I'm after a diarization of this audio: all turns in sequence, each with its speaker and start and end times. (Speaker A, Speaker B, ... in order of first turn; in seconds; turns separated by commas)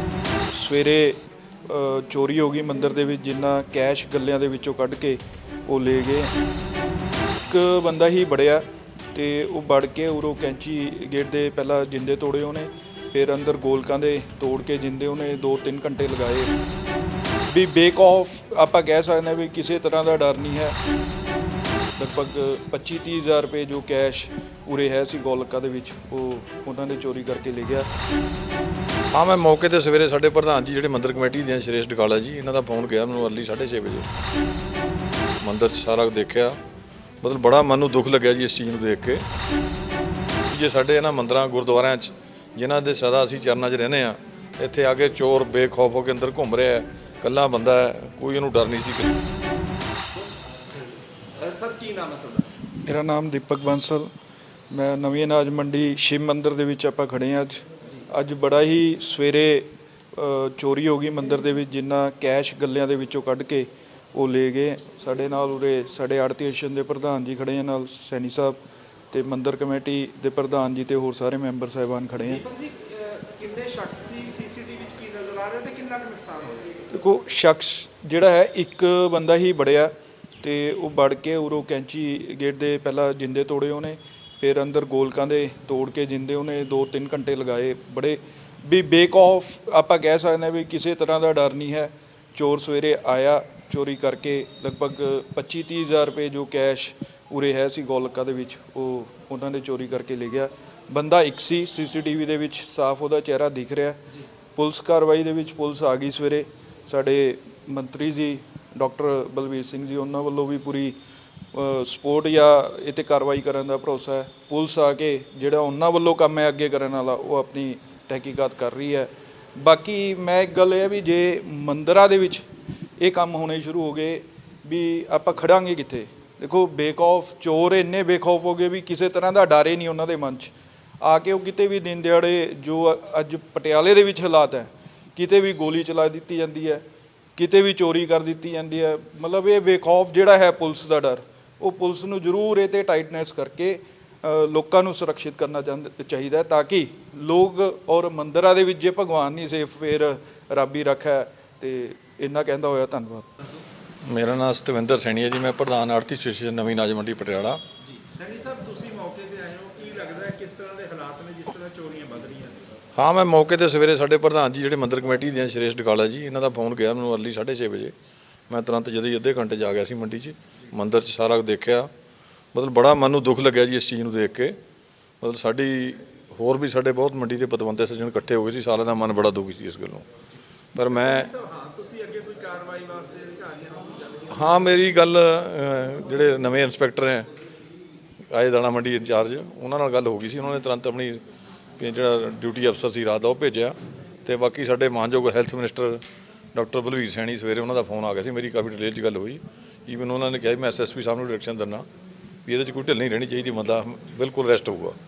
Speaker A: 0.5-6.3, Speaker A: 7.4-16.5, Speaker A: 17.5-20.8, Speaker A: 22.0-27.9, Speaker B: 29.1-34.1, Speaker B: 35.4-36.6, Speaker B: 37.2-39.2, Speaker B: 40.5-49.1, Speaker C: 51.4-52.5, Speaker A: 52.8-54.1, Speaker A: 54.7-68.6, Speaker A: 69.1-72.4, Speaker C: 72.2-76.7, Speaker A: 76.9-79.9, Speaker A: 80.4-104.0, Speaker A: 104.6-111.0, Speaker A: 111.5-122.5, Speaker A: 123.0-136.8, Speaker A: 137.4-153.3, Speaker B: 154.1-157.6, Speaker C: 157.9-162.7, Speaker B: 163.0-167.9, Speaker B: 168.5-171.9, Speaker B: 172.5-174.6, Speaker B: 175.2-180.1, Speaker B: 180.8-181.3, Speaker C: 180.9-184.7, Speaker B: 184.3-187.3, Speaker B: 188.3-191.2, Speaker B: 191.8-196.0, Speaker B: 196.5-201.9, Speaker B: 202.5-205.0